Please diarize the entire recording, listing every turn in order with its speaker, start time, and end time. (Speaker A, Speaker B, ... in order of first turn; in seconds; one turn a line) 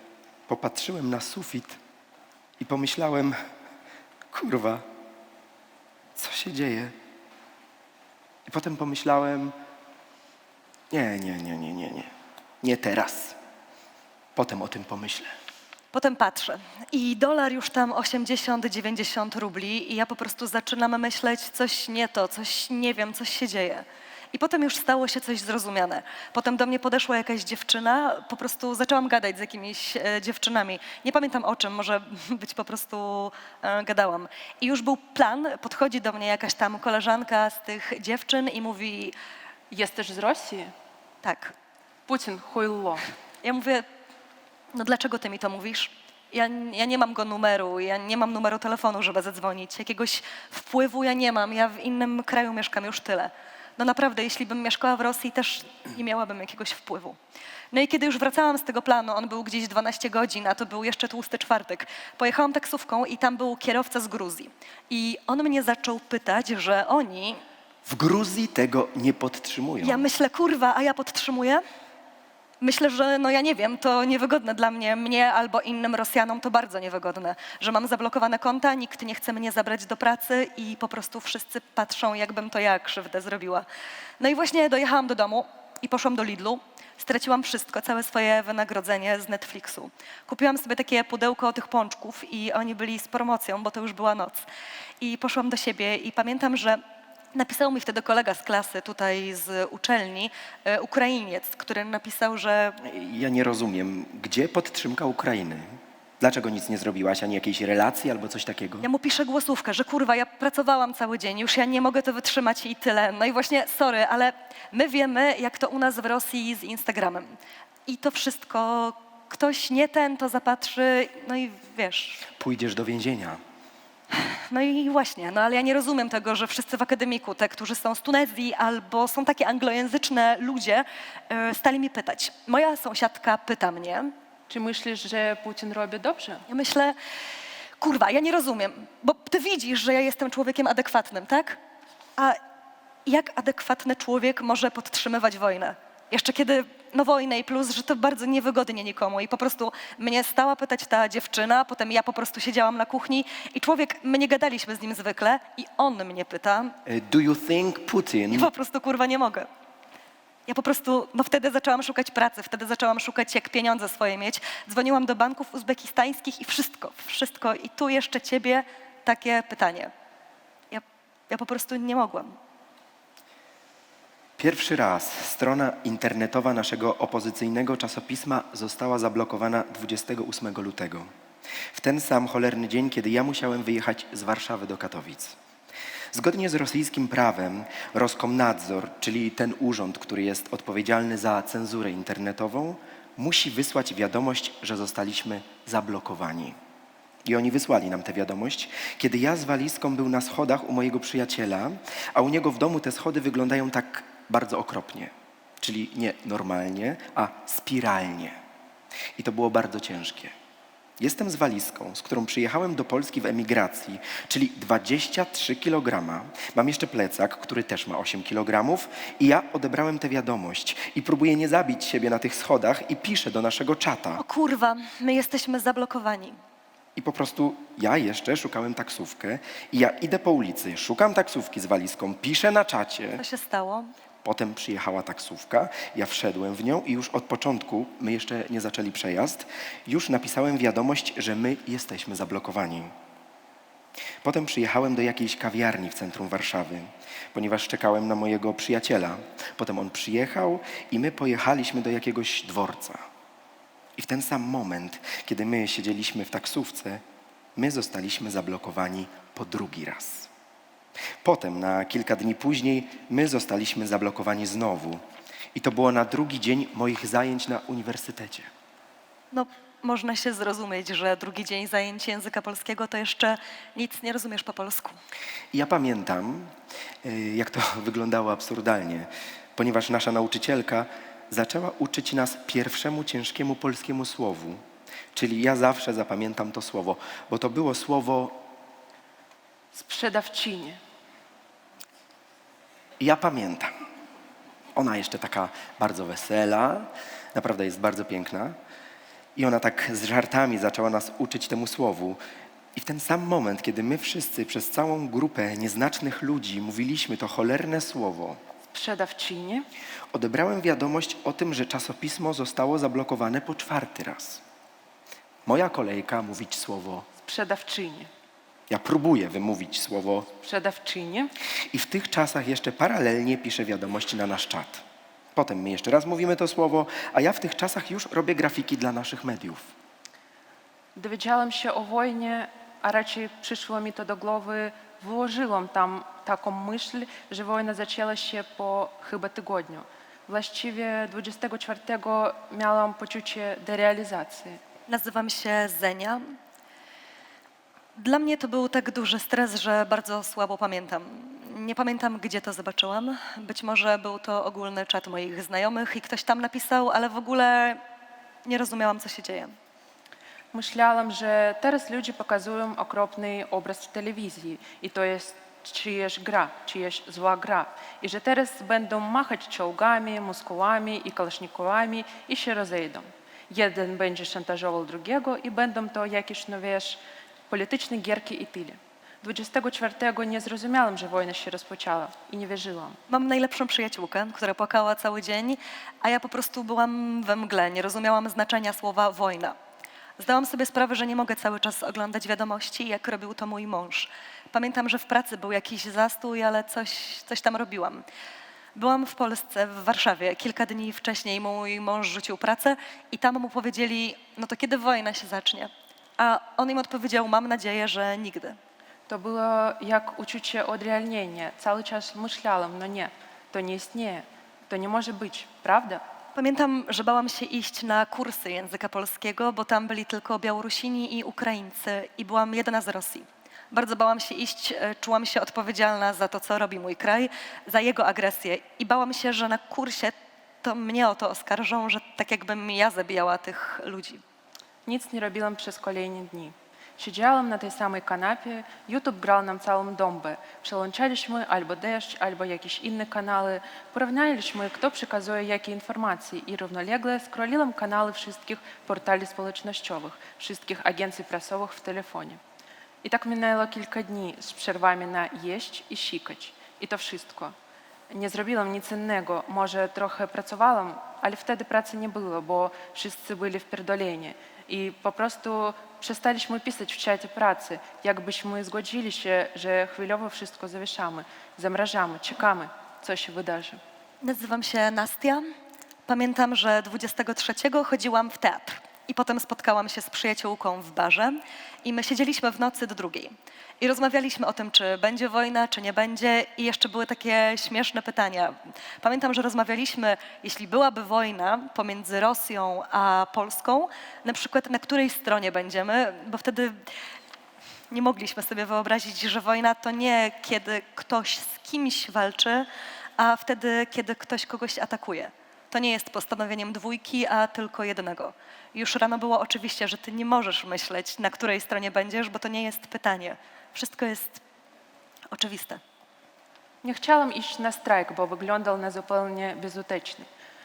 Speaker A: 0.5-1.8
Speaker A: 2.6-3.4
Speaker A: 4.3-4.8
Speaker A: 6.2-6.9
Speaker A: 8.5-9.6
Speaker A: 10.9-13.4
Speaker A: 14.3-15.3
Speaker B: 15.9-39.1
Speaker C: 39.7-40.7
Speaker B: 41.2-41.5
Speaker C: 42.1-43.0
Speaker B: 43.4-43.9
Speaker B: 44.7-57.2
Speaker B: 57.7-67.4
Speaker A: 67.9-70.1
Speaker B: 69.8-71.6
Speaker B: 72.6-83.7
Speaker B: 84.2-94.5
Speaker B: 95.0-96.8
Speaker B: 97.3-102.8
Speaker A: 102.8-108.9
Speaker B: 108.8-117.3
Speaker B: 117.9-122.2
Speaker A: 122.3-123.4
Speaker B: 124.1-134.1
Speaker C: 134.5-136.4
Speaker B: 136.5-137.0
Speaker B: 137.8-141.6
Speaker B: 143.1-156.8
Speaker A: 156.9-158.5
Speaker B: 158.3-159.5
Speaker B: 160.5-169.9
Speaker B: 170.7-172.3
Speaker A: 174.4-181.1
Speaker A: 181.7-185.4
Speaker A: 186.1-196.6
Speaker A: 197.2-208.4
Speaker A: 209.2-210.3
Speaker A: 211.0-224.2
Speaker B: 224.2-226.4
Speaker A: 227.0-233.2
Speaker B: 233.2-233.9
Speaker A: 234.2-242.9
Speaker A: 244.2-253.0
Speaker A: 254.0-257.0
Speaker A: 257.6-260.3
Speaker A: 261.2-265.0
Speaker A: 265.5-268.5
Speaker B: 269.3-275.0
Speaker A: 275.5-284.6
Speaker A: 285.1-288.4
Speaker C: 289.7-290.8
Speaker A: 293.0-293.7
Speaker A: 294.8-298.6
Speaker A: 299.4-302.2
Speaker A: 302.8-308.4
Speaker C: 308.7-309.7
Speaker A: 310.1-314.4
Speaker A: 315.5-317.1
Speaker C: 317.2-318.1
Speaker A: 318.7-320.3
Speaker C: 320.4-321.3
Speaker A: 321.7-324.8
Speaker A: 325.4-329.7
Speaker C: 331.0-344.6
Speaker B: 344.9-346.2
Speaker B: 348.0-357.8
Speaker B: 358.4-359.5
Speaker C: 360.5-383.0
Speaker B: 383.1-389.6
Speaker B: 390.2-398.0
Speaker B: 398.8-408.6
Speaker C: 409.1-416.0
Speaker B: 416.4-434.2
Speaker C: 434.9-452.4
Speaker C: 453.0-457.5
Speaker C: 458.1-473.8
Speaker B: 474.2-475.5
Speaker B: 476.1-496.8
Speaker B: 497.9-502.7
Speaker B: 503.2-514.4
Speaker B: 515.3-515.8
Speaker C: 516.8-520.3